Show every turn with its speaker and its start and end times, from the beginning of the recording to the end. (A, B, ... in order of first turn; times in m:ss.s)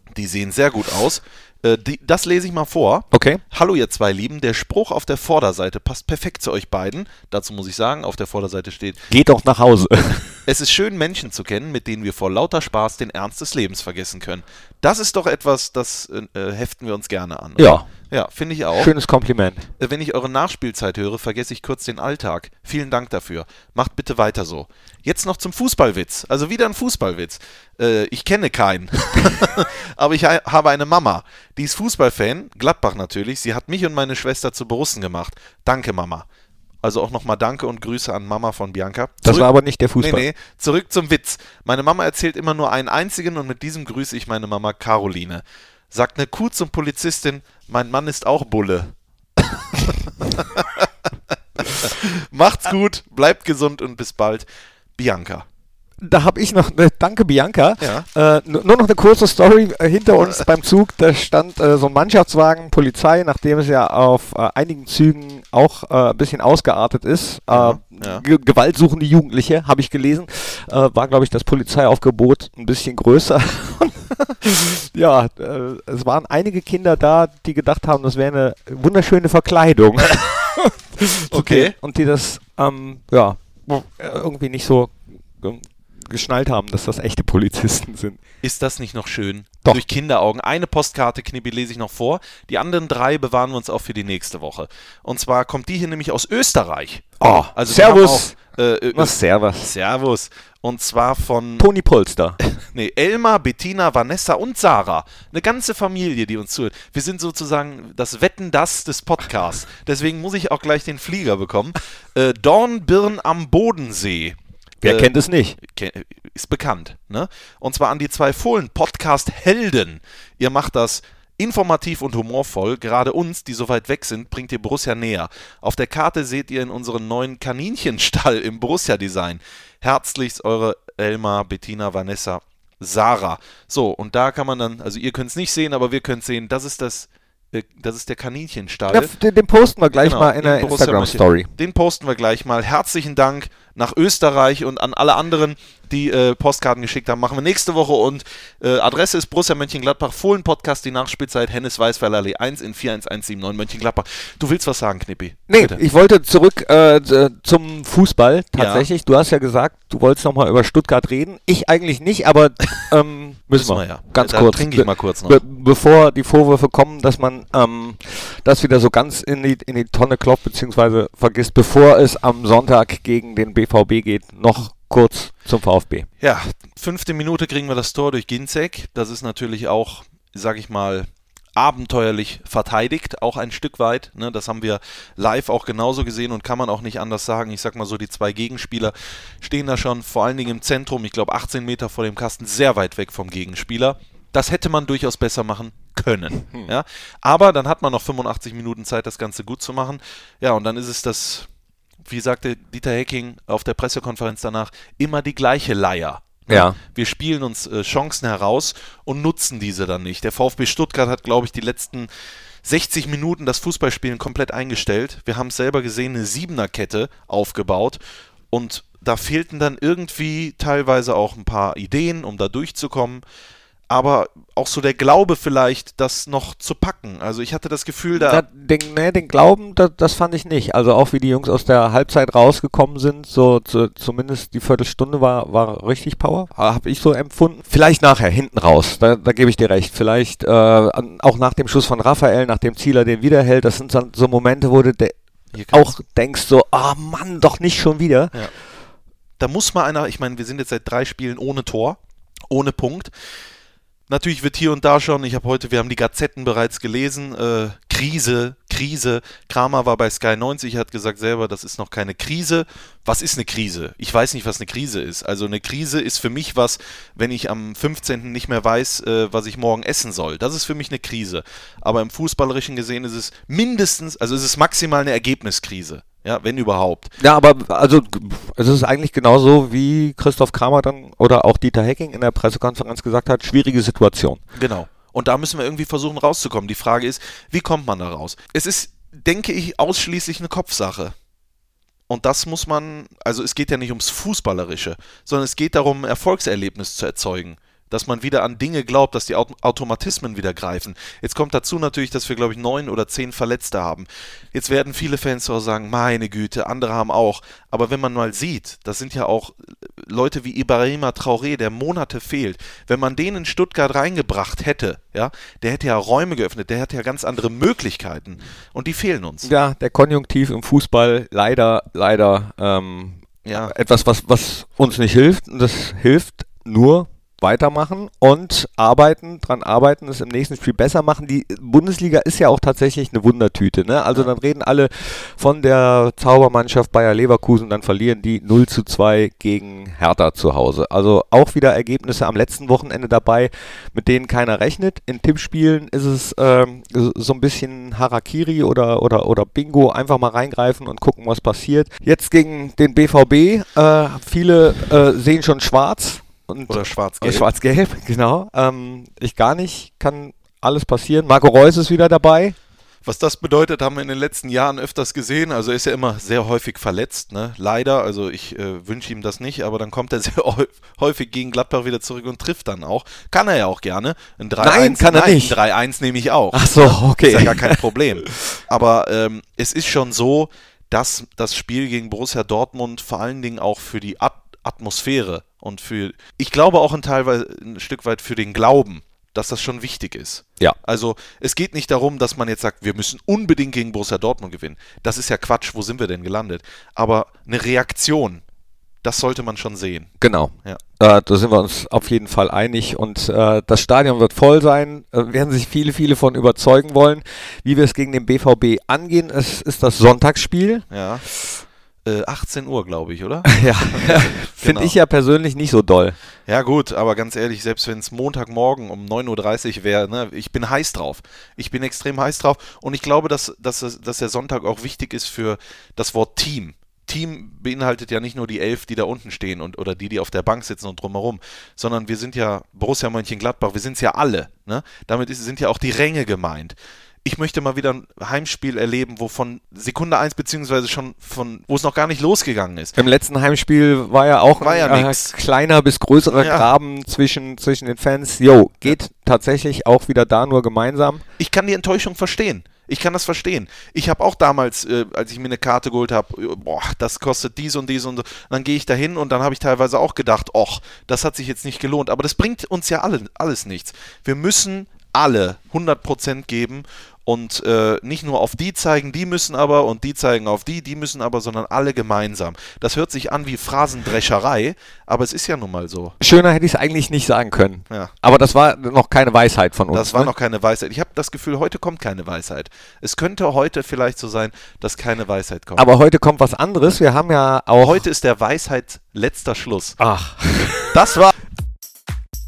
0:00.1-0:09.0 A
0:03.1-0:03.4 B
0:09.1-0:10.3 B
0:10.4-0:18.9 A
0:17.6-0:17.9 B
0:18.7-0:19.6 B
0:19.8-0:36.2 A
0:36.8-0:39.5 A
0:39.2-0:40.3 B
0:40.0-0:50.9 A
0:51.6-0:55.4 A
0:56.0-1:28.2 B
0:57.8-0:58.1 A
1:00.1-1:00.4 A
1:07.5-1:08.2 A
1:21.3-1:21.7 A
1:28.4-1:41.7 A
1:37.2-1:38.3 B
1:38.9-1:39.7 B
1:41.6-1:42.4 B
1:42.7-2:19.1 A
1:54.8-1:55.6 B
2:18.9-2:21.5 B
2:20.0-2:35.8 A
2:35.5-2:56.1 B
2:38.5-2:38.9 A
2:43.6-2:45.4 A
2:56.2-3:21.5 A
3:22.0-3:32.1 A
3:26.5-3:26.8 B
3:32.6-3:38.0 A
3:38.5-3:43.2 A
3:43.9-3:48.4 A
3:48.1-4:05.1 B
4:05.5-4:05.9 A
4:05.7-4:08.4 B
4:09.4-4:13.1 A
4:14.1-4:37.1 A
4:37.2-4:44.4 B
4:44.6-4:51.1 A
4:52.1-5:19.5 A
5:19.4-6:02.6 B
5:23.4-5:23.7 A
5:56.7-5:57.5 A
6:03.0-6:38.4 A
6:14.6-6:15.6 B
6:16.5-6:18.6 B
6:39.0-6:40.1 A
6:40.2-6:50.8 B
6:50.9-6:51.2 A
6:52.0-6:55.0 A
6:53.5-6:56.2 B
6:56.5-7:23.0 A
7:23.0-7:31.2 B
7:24.6-7:25.3 A
7:26.3-7:26.7 A
7:31.4-7:56.2 A
7:56.2-8:00.3 B
7:59.9-8:05.9 A
8:05.8-8:08.0 B
8:07.8-8:10.0 A
8:10.0-8:10.9 B
8:10.9-8:11.3 A